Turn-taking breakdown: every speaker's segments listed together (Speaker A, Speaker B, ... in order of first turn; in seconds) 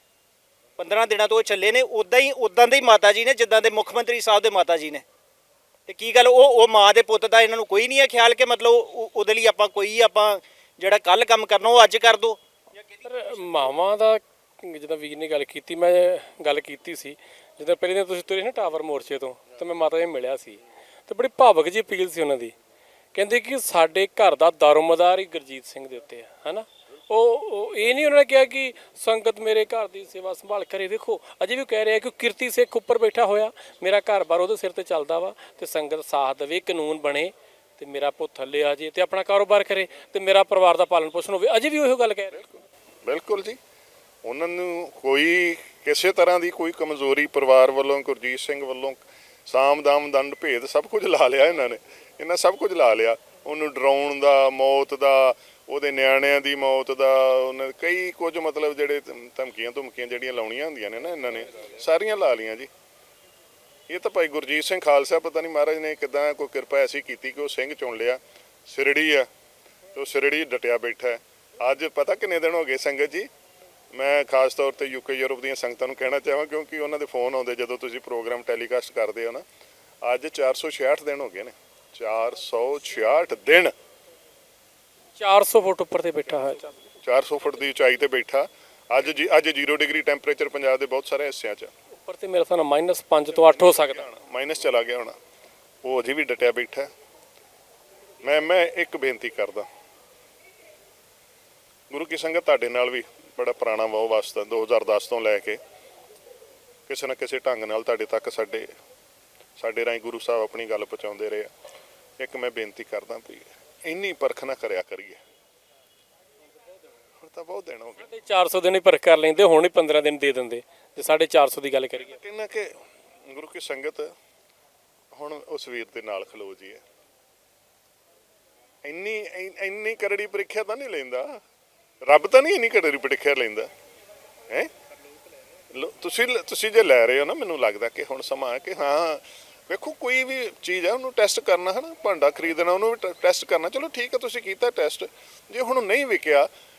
Speaker A: 0.8-5.0, 5.9-13.8
Speaker B: 13.0-22.5, 23.1-42.4, 85.2-86.8, 91.9-94.0, 118.0-122.2
Speaker C: 43.0-43.6, 44.2-62.7, 63.9-69.3, 69.9-73.3, 73.9-79.4, 80.0-83.7, 87.0-91.7, 93.3-95.2, 95.8-96.9, 98.2-99.7, 101.9-105.6, 106.9-108.7, 109.6-111.5, 112.2-115.2, 117.2-118.0, 122.0-124.1, 125.1-126.8, 128.8-131.4, 132.0-133.7, 135.7-146.5